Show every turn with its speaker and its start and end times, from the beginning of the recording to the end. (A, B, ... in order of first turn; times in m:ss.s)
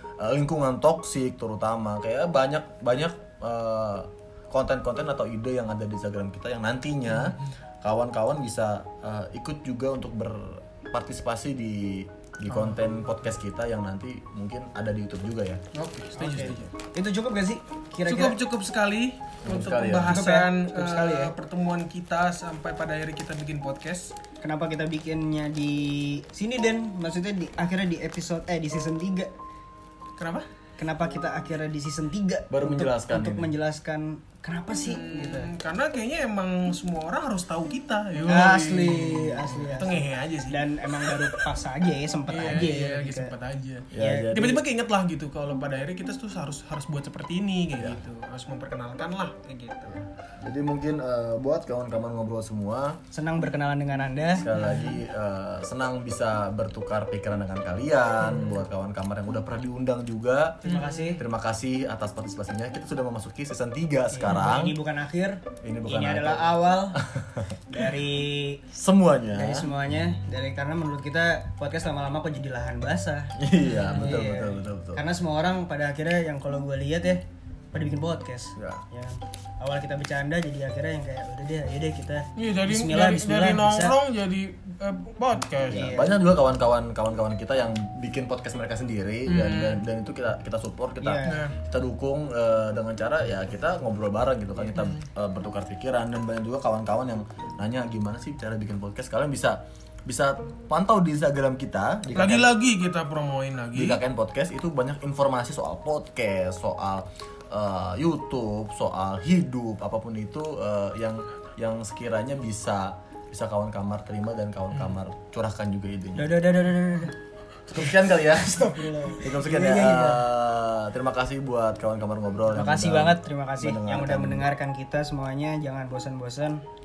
0:00.2-0:15.6 A
0:07.1-0:07.5 B
0:15.7-0:16.7 B
0:16.2-0:18.4 C
0:18.1-0:24.1 B
0:19.4-0:20.2 A
0:20.1-0:21.3 C
0:24.4-0:29.3 C
0:30.2-0:30.5 B
0:30.8-0:35.5 C
0:32.5-0:33.5 A
0:34.8-0:41.4 B
0:38.2-0:43.3 C
0:42.3-0:50.0 B
0:43.9-0:44.6 A
0:43.9-0:44.3 C
0:50.4-0:53.0 A
0:53.1-0:54.5 C
0:54.4-1:00.6 A
0:54.5-0:55.0 B
1:00.6-1:01.2 C
1:00.6-1:01.2 B
1:01.2-1:04.8 A
1:04.1-1:07.0 C
1:05.6-1:07.6 A
1:07.7-1:08.6 C
1:08.7-1:09.7 A
1:09.3-1:17.2 C
1:13.4-1:15.0 A
1:13.6-1:14.1 B
1:17.7-1:24.0 C
1:18.6-1:18.8 A
1:22.4-1:25.9 B
1:25.7-1:26.2 C
1:25.7-1:42.5 A
1:29.3-1:29.8 B
1:31.0-1:31.5 C
1:31.2-1:31.6 B
1:34.7-1:35.0 B
1:42.1-1:44.0 B
1:43.7-1:56.4 A
1:54.7-1:55.0 B
1:56.2-1:57.2 C
1:57.7-2:04.5 A
1:57.8-2:00.2 C
2:02.5-2:06.6 C